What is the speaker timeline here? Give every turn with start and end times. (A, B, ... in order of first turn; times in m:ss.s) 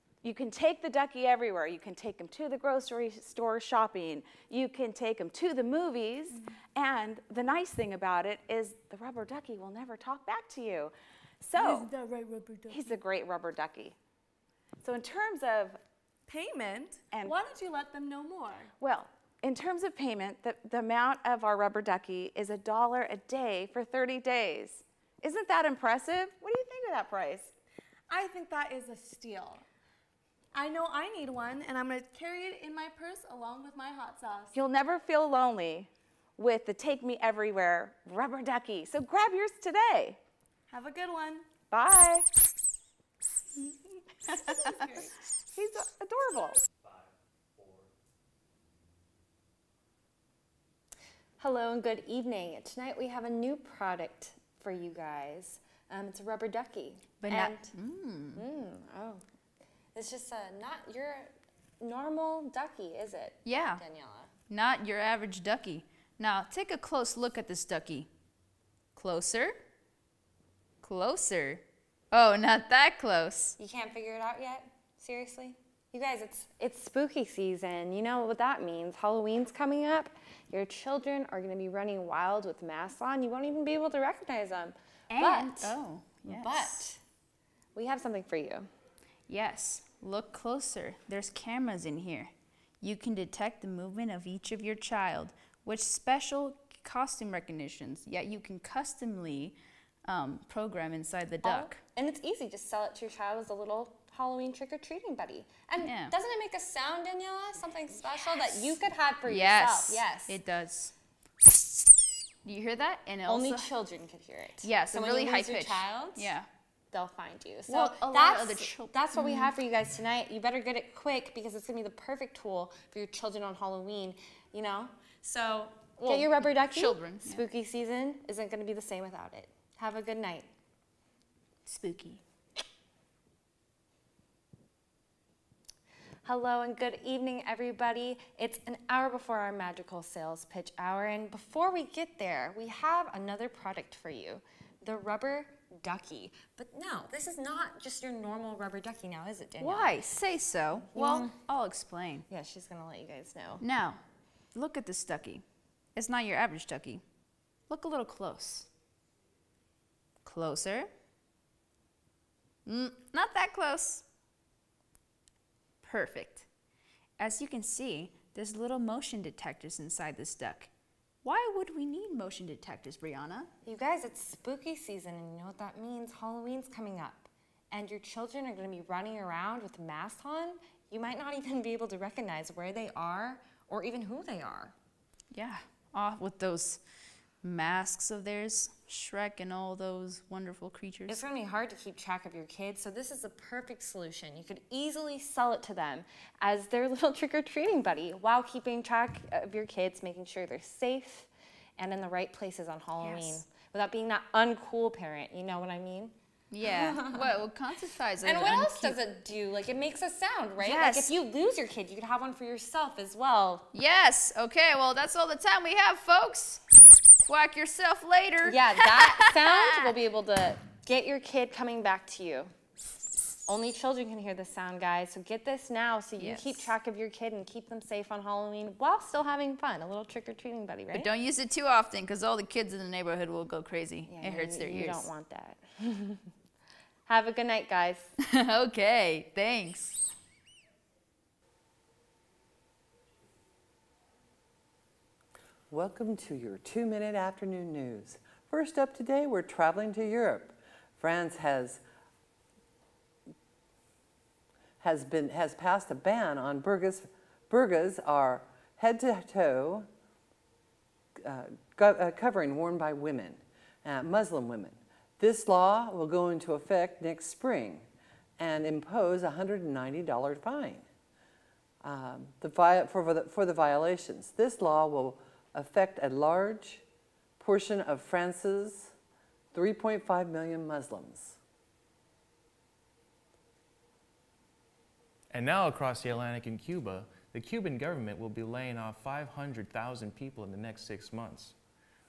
0:00.2-0:11.9 A
0:11.6-0:13.0 B
0:12.7-0:14.0 A
0:14.8-0:15.8 A
0:16.3-0:18.7 B
0:18.8-0:27.5 A
0:28.1-0:29.6 B
0:30.5-0:34.5 B
0:34.5-0:40.2 A
0:40.7-0:41.4 B
0:41.7-0:42.2 A
0:44.3-0:46.6 A
0:44.5-0:45.0 B
0:51.4-0:57.7 C
0:57.2-0:58.4 D
0:58.3-0:59.2 C
0:59.9-1:04.3 C
1:03.4-1:03.8 D
1:04.5-1:08.1 D
1:09.0-1:09.5 D
1:10.8-1:13.6 D
1:13.6-1:27.0 C
1:25.1-1:26.9 D
1:27.7-1:28.7 C
1:29.3-1:41.8 D
1:41.4-1:50.4 C
1:45.8-1:46.1 D
1:49.3-1:50.9 D
1:52.4-1:53.6 D
1:53.2-1:56.3 C
1:54.6-1:56.4 D
1:56.9-2:10.5 C
1:57.7-1:59.5 D
2:06.0-2:07.4 D
2:11.6-2:12.2 D
2:16.2-2:30.0 C
2:29.6-2:32.2 D
2:30.9-2:31.4 C
2:32.3-2:33.6 C
2:33.6-2:34.0 D
2:34.5-2:35.4 D
2:35.9-2:37.0 D
2:37.7-2:38.7 D
2:40.2-2:40.9 D
2:42.6-2:44.0 D
2:45.8-2:46.4 D
2:47.2-2:50.7 D
2:51.2-2:53.5 D
2:53.6-3:04.7 C
3:05.3-3:06.8 D
3:07.4-3:11.2 D
3:11.1-3:27.4 C
3:26.5-3:28.9 D
3:28.2-3:33.7 C
3:30.6-3:31.0 B
3:33.7-3:39.9 D
3:38.4-3:42.5 C
3:43.4-3:51.1 C
3:46.2-3:46.6 D
3:50.9-3:55.1 D
3:54.0-3:56.2 C
3:57.1-3:58.1 C
3:58.3-4:00.1 D
4:05.7-4:11.8 E
4:14.8-4:19.9 E
4:21.2-4:27.8 E
4:28.4-4:30.8 E
4:31.8-4:36.8 E
4:37.4-4:38.9 E
4:39.5-4:41.4 E
4:45.3-4:51.6 F